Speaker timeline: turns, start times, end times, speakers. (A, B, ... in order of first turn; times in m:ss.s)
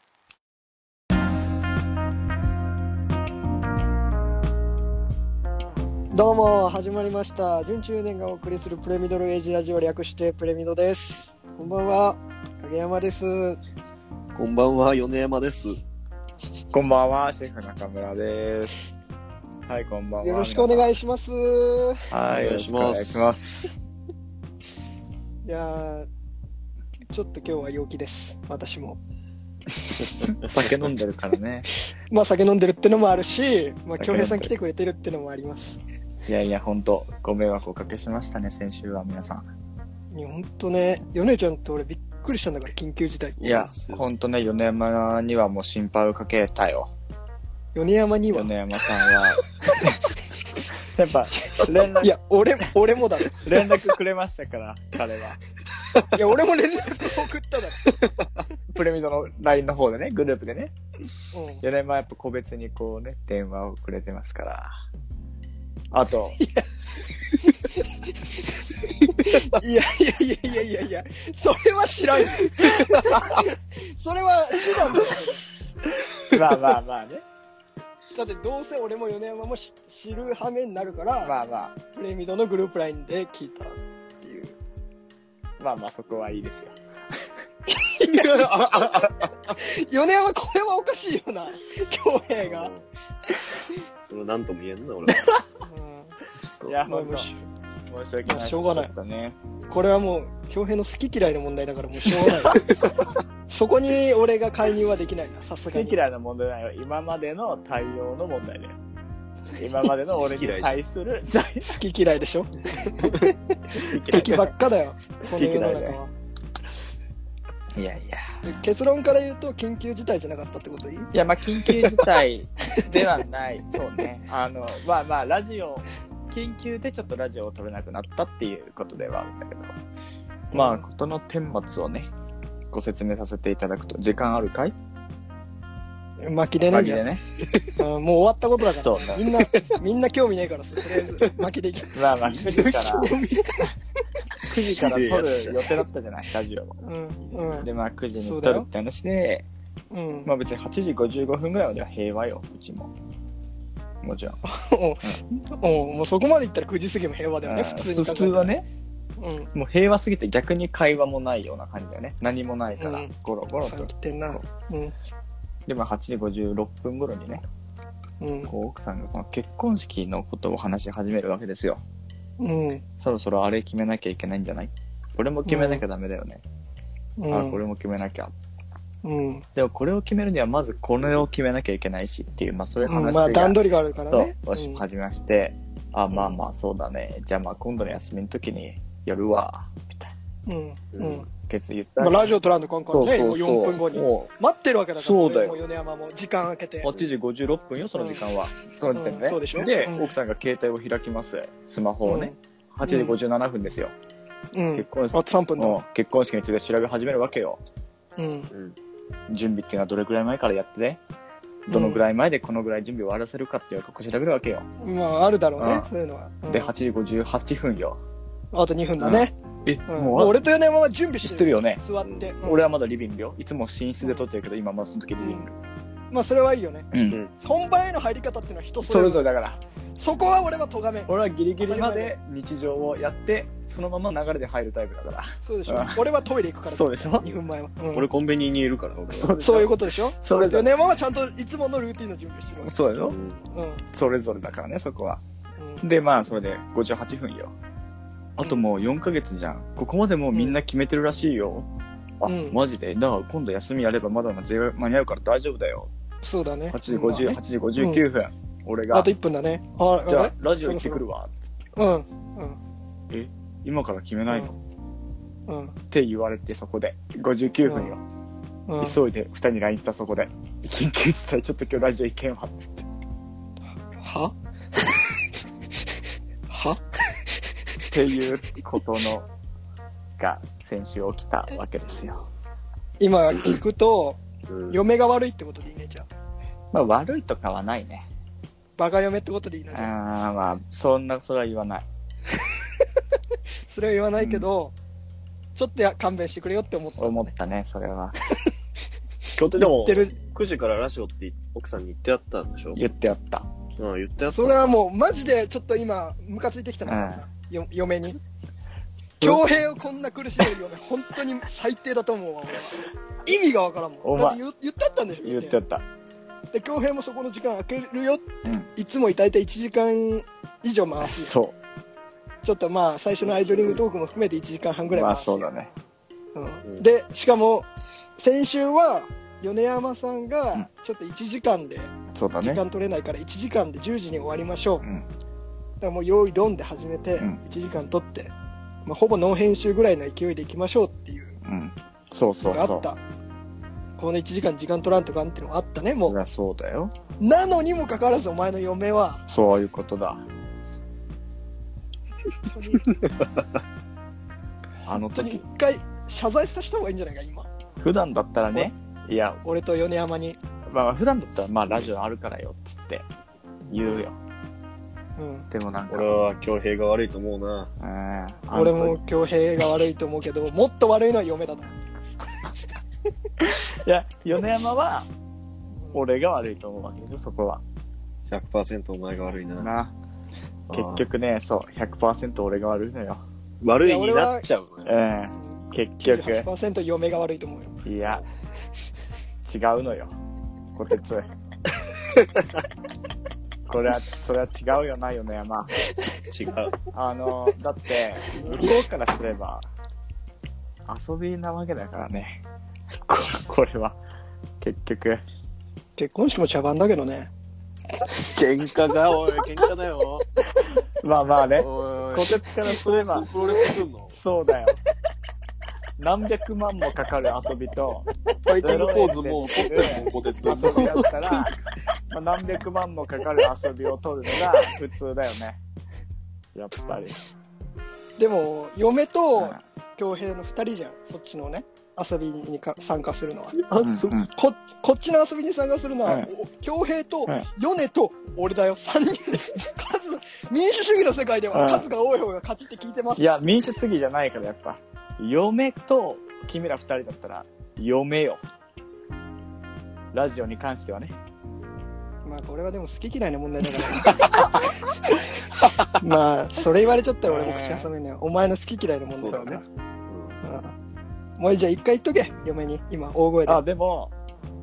0:06.1-0:13.6 A
0:14.3-0:15.8 B
0:16.7-0:18.8 C
0:19.7-0:20.9 C
0:20.2-0:22.1 A
0:22.1-0:23.7 C
0:22.3-0:23.4 B
0:25.4-0:26.1 A
0:27.1-0:29.0 A
0:30.2-0:30.8 B
0:30.3-0:31.7 C
0:32.1-0:35.8 A
0:34.0-0:34.5 C
0:36.3-0:39.4 C
0:40.1-0:43.4 A
0:43.3-0:44.1 B
0:43.4-0:46.9 C
0:47.7-0:48.5 A
0:48.3-0:50.1 C
0:50.8-0:52.2 C
0:51.6-0:53.4 A
0:53.4-0:55.4 C
0:56.0-0:58.1 A
0:58.7-1:00.7 C
1:01.3-1:01.6 A
1:01.6-1:04.7 C
1:05.9-1:06.4 C
1:09.0-1:15.4 A
1:16.1-1:17.2 C
1:18.1-1:21.3 A
1:21.2-1:21.7 C
1:21.9-1:24.6 A
1:25.6-1:26.7 C
1:27.7-1:32.7 A
1:28.1-1:28.7 B
1:32.4-1:32.9 B
1:34.0-1:35.3 B
1:35.6-1:36.2 A
1:36.3-1:36.7 B
1:36.6-1:37.3 C
1:36.8-1:37.4 A
1:37.9-1:39.4 C
1:38.3-1:38.9 A
1:39.7-1:42.6 A
1:43.5-1:46.0 A
1:45.7-1:48.8 C
1:49.6-1:51.6 C
1:50.2-1:50.8 B
1:51.4-1:53.4 A
1:53.7-1:54.5 C
1:53.9-1:56.1 A
1:55.2-1:56.0 C
1:57.7-1:58.3 C
1:58.4-2:02.0 A
2:01.1-2:09.7 C
2:10.5-2:10.8 A
2:10.5-2:12.1 C
2:12.7-2:14.7 C
2:16.2-2:17.0 A
2:16.7-2:17.2 C
2:17.7-2:23.7 A
2:18.8-2:19.3 C
2:21.9-2:23.1 C
2:24.4-2:26.8 C
2:24.8-2:25.6 B
2:26.8-2:28.7 A
2:27.3-2:29.4 C
2:29.9-2:30.3 A
2:30.2-2:32.9 C
2:34.0-2:34.4 C
2:34.5-2:38.5 A
2:37.4-2:38.6 C
2:39.2-2:39.5 A
2:39.5-2:44.4 C
2:42.8-2:43.1 A
2:43.6-2:44.9 A
2:45.7-2:47.4 C
2:48.2-2:48.5 A
2:48.5-2:51.8 C
2:52.4-2:52.8 A
2:53.0-2:56.4 C
2:55.4-2:55.8 A
2:57.2-2:57.6 A
2:57.3-2:58.3 C
2:59.0-2:59.4 A
2:59.6-3:03.6 C
3:02.8-3:04.8 A
3:04.1-3:10.1 C
3:06.1-3:06.4 A
3:10.5-3:11.3 A
3:10.9-3:11.2 B
3:11.3-3:12.3 C
3:12.0-3:16.9 A
3:12.9-3:14.3 C
3:15.0-3:15.6 C
3:16.8-3:23.9 C
3:17.9-3:18.2 A
3:18.9-3:20.1 A
3:22.0-3:23.2 A
3:24.5-3:25.8 A
3:24.7-3:27.6 C
3:28.2-3:28.5 A
3:28.5-3:28.8 B
3:29.3-3:31.0 C
3:31.7-3:34.7 C
3:31.7-3:32.0 A
3:34.8-3:36.7 A
3:35.6-3:35.9 C
3:36.5-3:38.0 C
3:38.5-3:39.3 A
3:39.0-3:40.4 C
3:39.9-3:42.7 A
3:41.2-3:41.8 C
3:42.4-3:45.6 C
3:45.2-3:45.5 A
3:46.1-3:46.9 A
3:46.9-3:47.2 C
3:47.4-3:49.3 A
3:48.8-3:49.6 C
3:50.0-3:51.1 A
3:51.1-3:56.0 C
3:51.6-3:52.1 A
3:55.4-3:58.1 A
3:56.7-3:57.3 C
3:57.9-3:59.4 B
3:59.1-4:00.7 C
3:59.4-4:02.7 A
4:02.6-4:03.2 C
4:03.0-4:03.4 B
4:03.5-4:03.8 A
4:03.9-4:05.2 C
4:05.6-4:05.9 A
4:05.8-4:07.5 C
4:08.4-4:11.7 C
4:12.2-4:15.9 C
4:12.2-4:12.6 A
4:16.2-4:18.0 A
4:16.7-4:19.1 C
4:18.9-4:21.0 A
4:20.0-4:21.5 C
4:21.8-4:22.6 A
4:23.1-4:24.5 C
4:25.5-4:25.8 A
4:25.9-4:28.0 C
4:27.6-4:27.9 A
4:28.7-4:29.0 A
4:28.8-4:32.9 C
4:33.9-4:34.3 A
4:36.5-4:36.8 A
4:37.8-4:39.2 C
4:40.2-4:42.3 C
4:43.0-4:46.1 A
4:44.5-4:44.8 B
4:46.7-4:48.1 C
4:48.8-4:49.9 A
4:49.7-4:51.8 C
4:53.7-4:54.7 A
4:54.2-4:54.5 C
4:55.6-4:57.3 A
4:57.0-4:58.2 C
4:59.4-4:59.8 C
4:59.6-5:02.8 B
4:59.6-5:00.1 A
5:02.8-5:03.5 C
5:03.8-5:04.8 B
5:04.3-5:08.2 A
5:06.8-5:07.2 C
5:09.2-5:15.6 A
5:14.0-5:14.4 C
5:15.2-5:15.8 C
5:16.5-5:21.3 A
5:21.0-5:21.5 C
5:22.4-5:25.5 A
5:24.9-5:25.7 C
5:26.3-5:34.8 A
5:32.1-5:32.6 C
5:35.8-5:38.3 A
5:38.8-5:41.4 A
5:41.4-5:42.9 C
5:42.4-5:43.0 A
5:44.0-5:46.2 A
5:46.1-5:46.9 C
5:47.2-5:49.2 A
5:49.3-5:50.2 C
5:52.5-5:52.8 A
5:52.9-5:53.6 B
5:54.8-5:55.4 C
5:55.1-5:57.5 A
5:57.8-5:59.4 C
5:59.4-6:00.4 A
6:00.7-6:03.0 C
6:03.7-6:04.2 C
6:03.7-6:04.0 A
6:05.2-6:05.5 A
6:05.5-6:06.2 C
6:05.9-6:07.7 B
6:07.8-6:09.0 C
6:08.5-6:11.8 A
6:13.4-6:15.1 C
6:15.9-6:17.6 C
6:18.3-6:19.7 B
6:19.6-6:19.9 C
6:20.7-6:21.0 B
6:20.7-6:23.2 C
6:23.6-6:25.0 B
6:23.8-6:24.4 A
6:24.8-6:26.5 C
6:25.4-6:27.8 A
6:27.8-6:28.2 C
6:29.4-6:30.1 C
6:30.7-6:31.2 C
6:33.7-6:35.7 C
6:36.3-6:36.8 B
6:36.9-6:39.6 C
6:40.9-6:42.4 C
6:43.0-6:44.0 C
6:44.6-6:45.2 C
6:46.0-6:47.3 A
6:48.2-6:50.2 B
6:51.0-6:53.3 C
6:51.6-6:54.2 B
6:54.1-6:54.8 C
6:56.0-6:58.1 C
6:58.4-6:58.9 A
6:58.5-7:01.5 B
6:58.6-7:01.5 C
7:02.1-7:05.6 C
7:06.5-7:07.2 C
7:08.2-7:23.2 A
7:13.8-7:14.1 B
7:13.8-7:14.3 C
7:21.5-7:21.9 C
7:23.2-7:28.4 C
7:30.1-7:31.1 C
7:32.2-7:34.4 A
7:35.9-7:39.6 A
7:37.2-7:37.9 C
7:39.1-7:40.4 B
7:39.3-7:39.6 C
7:40.4-7:40.7 A
7:41.4-7:43.6 A
7:43.4-7:44.1 C